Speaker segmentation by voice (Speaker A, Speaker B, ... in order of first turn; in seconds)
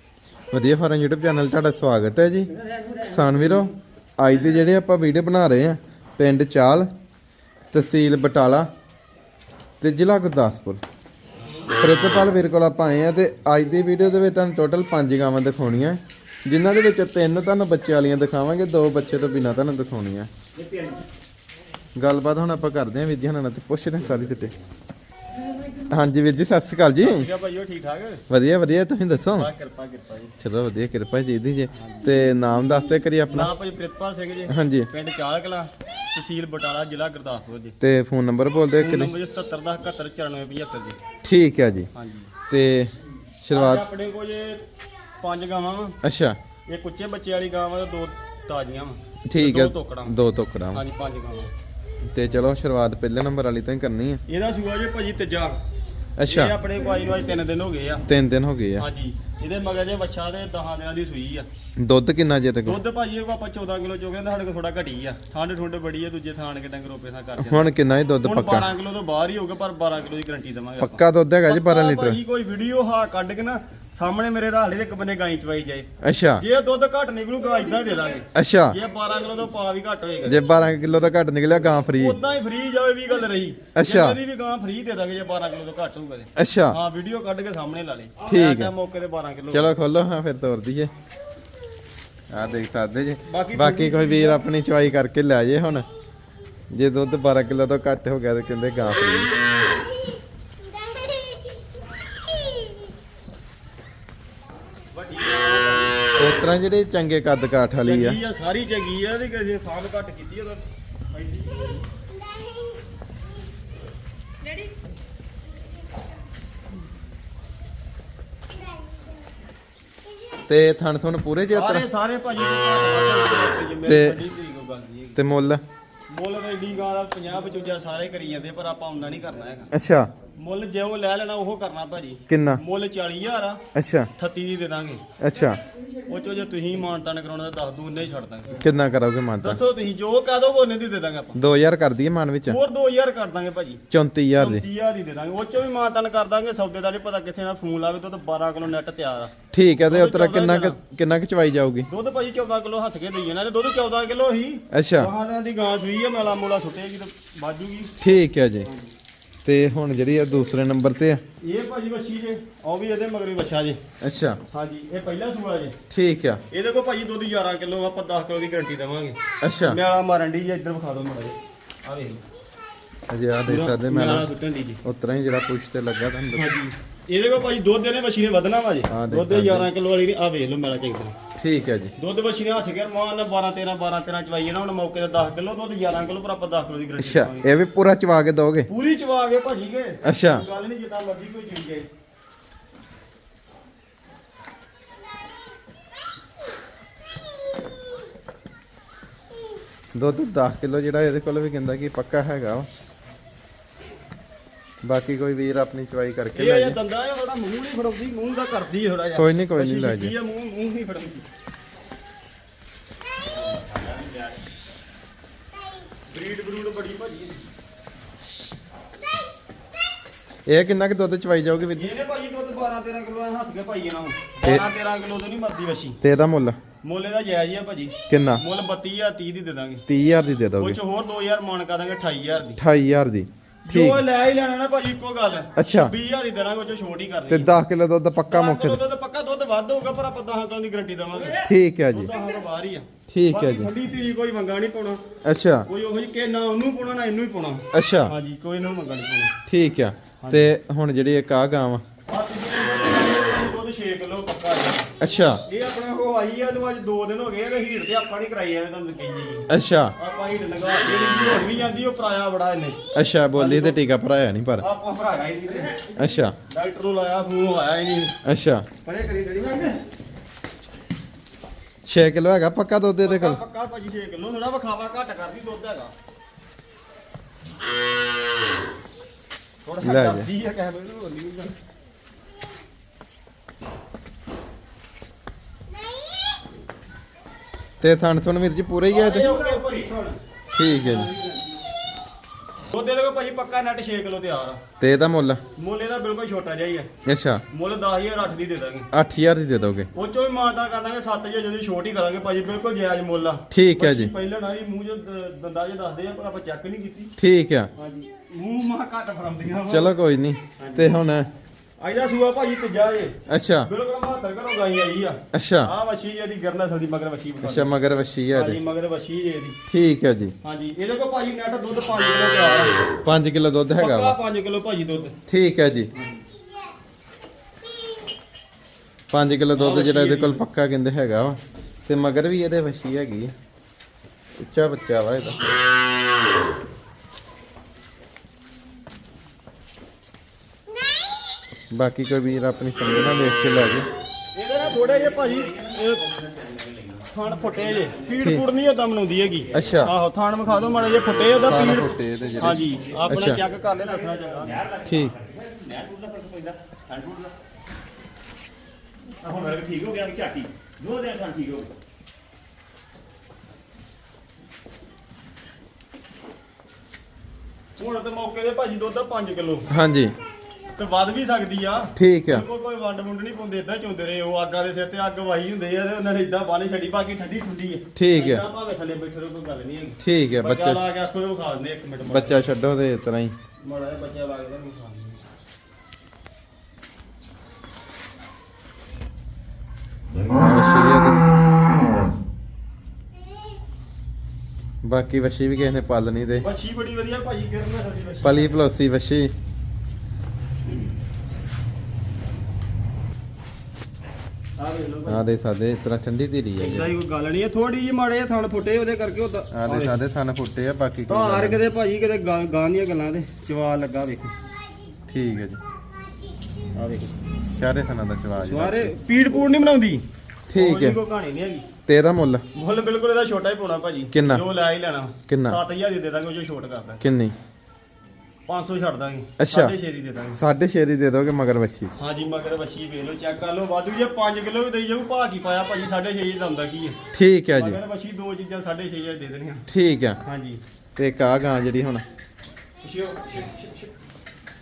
Speaker A: 0.5-6.9, 7.7-8.7, 9.8-10.8, 11.8-20.3, 22.0-24.5, 25.9-27.3, 28.3-29.5, 30.4-33.5, 34.5-34.9, 37.8-39.1, 41.2-41.9, 42.5-42.9, 43.4-43.8, 46.0-46.4, 49.3-50.8, 52.1-54.2, 56.2-56.5, 58.1-58.9, 61.8-62.8, 67.4-68.7, 70.8-72.2, 76.0-76.4, 78.3-78.8, 80.2-82.2, 83.8-84.2, 86.4-86.8, 88.3-88.7, 89.5-90.9, 92.3-95.9, 96.7-99.4, 106.2-108.2, 120.5-121.9, 123.8-124.2, 125.2-125.6, 129.7-130.1, 132.3-132.6, 133.8-134.1, 135.2-135.6, 138.6-139.6, 141.3-142.6, 143.9-144.7, 149.5-151.9, 154.7-155.1, 158.0-158.7, 159.4-161.2, 164.0-164.4, 165.9-166.4, 169.4-169.8, 173.1-174.3, 174.8-176.5, 178.9-179.7, 181.4-181.9, 187.0-188.7, 190.1-190.4, 199.9-202.7, 204.8-206.8, 209.2-210.1, 220.5-221.9, 226.0-226.6, 228.1-228.4, 229.9-230.8, 232.6-234.0, 235.6-235.9, 237.3-238.8, 241.4-242.1, 243.1-243.7, 245.2-245.7, 247.7-248.1, 249.5-251.8, 255.0-255.4, 259.5-259.9, 262.9-264.7, 265.9-266.4, 268.2-268.7, 271.9-273.4, 279.8-280.3, 287.8-289.4, 290.5-291.1, 294.8-295.4, 297.1-297.4, 298.9-299.9, 303.5-304.1, 307.2-307.7, 309.7-311.3, 313.3-313.7, 315.3-315.7, 317.4-318.6, 319.7-320.3, 323.1-324.2, 325.3-325.9, 329.1-333.3, 334.4-335.5, 341.7-343.9, 349.5-349.9, 351.5-353.4, 354.9-355.2, 369.7-370.1, 372.0-372.4, 378.0-378.4, 380.0-380.8, 382.1-383.3, 390.3-391.3, 394.8-396.5, 398.2-399.3, 405.1-406.9, 409.5-411.6, 415.1-415.6, 417.6-418.9, 420.5-421.0, 421.9-422.4, 424.1-424.4, 425.3-425.6, 427.0-427.3, 429.4-429.7, 430.4-431.9, 437.1-437.8, 439.7-440.2, 441.0-442.0
Speaker B: 2.6-3.7, 27.0-28.2, 29.4-30.3, 31.8-32.1, 33.3-37.8, 38.8-41.0, 41.9-42.3, 43.5-44.6, 45.2-46.0, 46.7-50.1, 50.7-51.5, 54.3-55.6, 56.3-58.1, 58.8-61.5, 62.6-67.7, 68.2-80.4, 81.9-89.7, 93.3-94.4, 104.9-106.3, 107.8-111.8, 121.5-125.2, 126.1-129.7, 130.3-133.6, 134.2-135.0, 136.1-138.6, 139.4-141.4, 142.5-143.8, 144.3-149.3, 149.9-150.8, 151.9-157.9, 161.4-163.8, 164.5-165.8, 166.5-172.2, 173.5-174.8, 176.3-181.2, 182.0-187.5, 188.7-191.9, 206.3-211.2, 216.1-217.4, 221.8-226.0, 226.8-229.8, 230.6-232.6, 233.7-237.5, 238.3-245.0, 245.7-249.3, 250.2-250.5, 252.1-254.9, 255.4-262.8, 263.3-263.8, 264.6-268.2, 268.8-269.8, 273.0-275.9, 279.6-281.5, 288.9-290.2, 290.9-291.3, 292.7-294.6, 295.6-296.9, 297.5-298.9, 299.9-307.1, 307.8-309.9, 310.6-310.9, 311.8-317.7, 318.3-319.6, 320.4-322.8, 323.8-325.1, 329.5-330.4, 344.4-346.1, 347.1-354.6, 359.2-359.9, 367.8-369.7, 370.8-382.5, 383.6-385.2, 396.4-398.5, 404.6-405.3, 406.6-410.0, 411.1-414.3, 416.8-417.1, 418.4-420.0, 420.5-421.7, 422.5-427.0, 428.5-430.4, 431.9-437.0, 437.6-439.7, 440.2-440.6, 442.8-443.9
Speaker C: 346.5-346.8, 354.7-357.3, 359.4-361.5